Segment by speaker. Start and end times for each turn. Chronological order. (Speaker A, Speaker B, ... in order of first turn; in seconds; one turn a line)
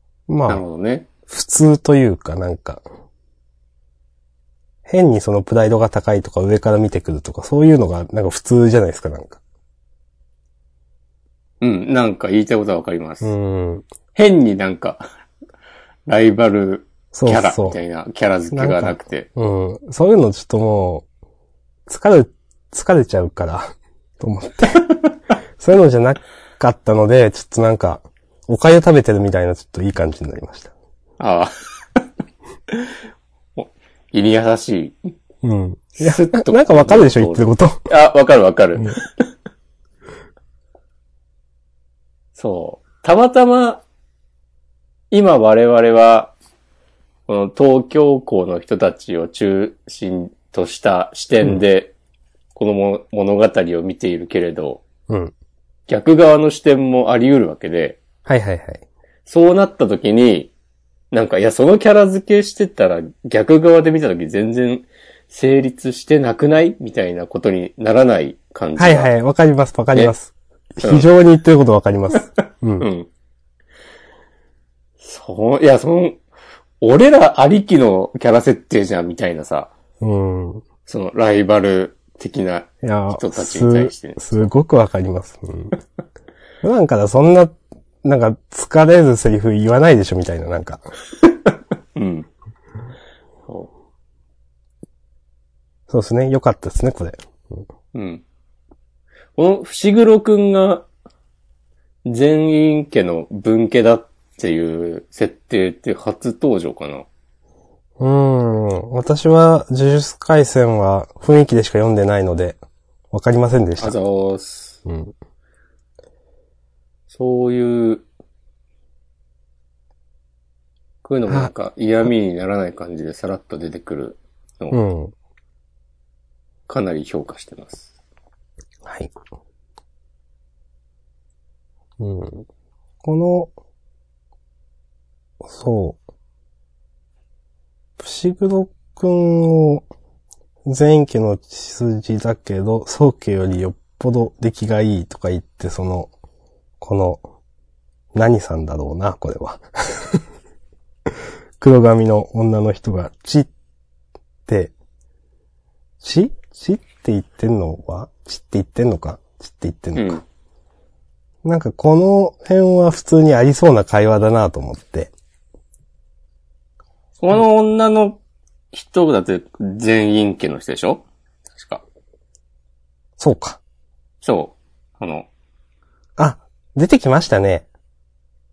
Speaker A: 0.3-0.6
Speaker B: 0.5-1.1
Speaker A: 1.3-2.8
Speaker A: 4.8-9.4
Speaker B: 11.6-13.3
Speaker A: 13.2-13.8
Speaker B: 14.1-15.0
Speaker B: 16.1-19.3
Speaker A: 17.1-17.8
Speaker A: 18.5-21.0
Speaker A: 21.9-24.9
Speaker A: 25.6-30.7
Speaker B: 31.2-31.5
Speaker B: 33.5-35.0
Speaker A: 35.4-37.8
Speaker B: 36.0-39.2
Speaker B: 42.4-43.8
Speaker B: 45.1-46.3
Speaker B: 47.3-51.9
Speaker B: 52.5-54.8
Speaker A: 55.1-55.3
Speaker B: 55.9-58.0
Speaker A: 58.2-58.8
Speaker B: 59.2-60.5
Speaker B: 61.1-69.1
Speaker A: 68.8-72.9
Speaker B: 70.8-71.1
Speaker B: 72.8-73.1
Speaker B: 75.0-76.2
Speaker B: 76.8-79.7
Speaker A: 80.0-80.6
Speaker B: 80.8-84.5
Speaker A: 82.8-85.8
Speaker A: 86.6-90.8
Speaker B: 92.0-92.3
Speaker A: 95.9-97.6
Speaker B: 97.9-98.2
Speaker B: 99.4-100.8
Speaker B: 102.0-107.1
Speaker A: 108.0-112.6
Speaker A: 113.1-113.9
Speaker B: 113.8-114.8
Speaker A: 114.8-115.1
Speaker B: 117.1-118.0
Speaker B: 121.0-124.8
Speaker A: 124.7-125.1
Speaker B: 126.7-127.9
Speaker A: 128.8-129.1
Speaker A: 132.0-132.4
Speaker A: 133.0-133.5
Speaker A: 135.4-136.0
Speaker A: 138.0-139.8
Speaker A: 140.6-146.1
Speaker A: 146.8-147.2
Speaker A: 148.1-150.2
Speaker A: 151.6-153.5
Speaker A: 154.4-154.7
Speaker A: 156.0-160.2
Speaker B: 159.9-160.2
Speaker A: 161.4-165.1
Speaker B: 167.2-168.2
Speaker B: 168.7-171.8
Speaker A: 173.2-173.6
Speaker B: 174.2-175.3
Speaker A: 176.2-177.7